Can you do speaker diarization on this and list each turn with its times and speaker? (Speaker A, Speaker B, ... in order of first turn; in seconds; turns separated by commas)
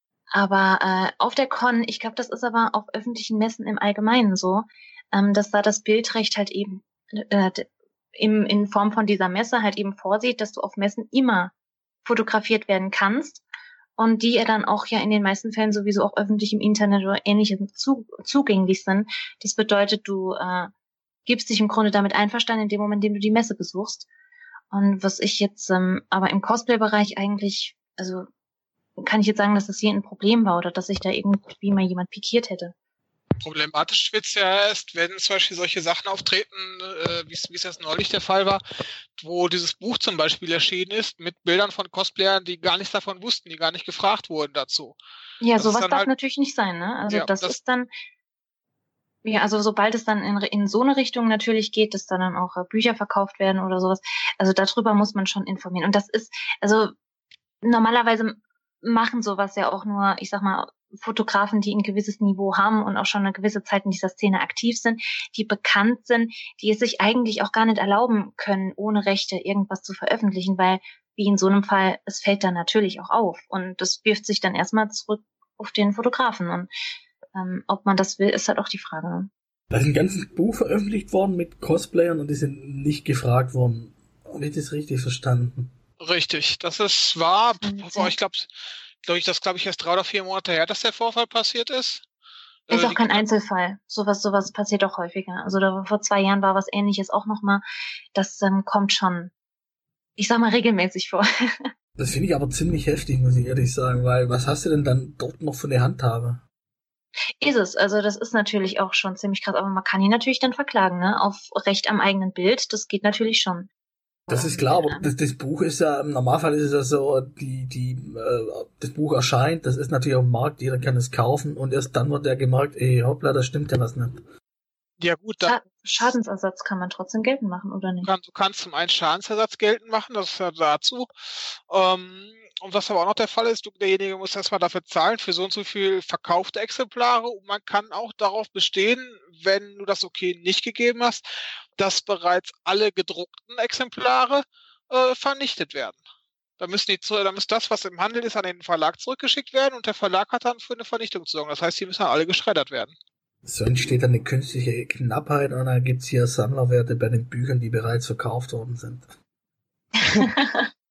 Speaker A: 0.3-11.5, Speaker A: 12.0-13.4, Speaker A: 14.0-20.7, Speaker A: 21.2-24.1, Speaker A: 24.7-28.2, Speaker A: 29.0-32.7, Speaker B: 33.4-38.6, Speaker B: 39.2-45.0, Speaker A: 45.4-47.9, Speaker B: 45.6-46.1, Speaker B: 47.1-47.5, Speaker A: 49.2-56.9, Speaker A: 57.6-76.7, Speaker A: 77.3-79.3, Speaker C: 79.7-85.7, Speaker B: 86.0-88.5, Speaker A: 87.6-88.1, Speaker B: 89.0-92.0, Speaker B: 92.7-93.2, Speaker A: 92.7-97.6, Speaker A: 98.1-99.3, Speaker A: 100.2-101.2, Speaker C: 102.0-106.4, Speaker A: 107.4-113.7, Speaker A: 114.3-115.1, Speaker C: 114.3-124.2, Speaker B: 125.0-125.5, Speaker A: 125.4-128.1, Speaker B: 128.0-141.2, Speaker B: 141.8-146.0, Speaker B: 146.6-152.9, Speaker C: 153.4-159.1, Speaker A: 160.0-160.7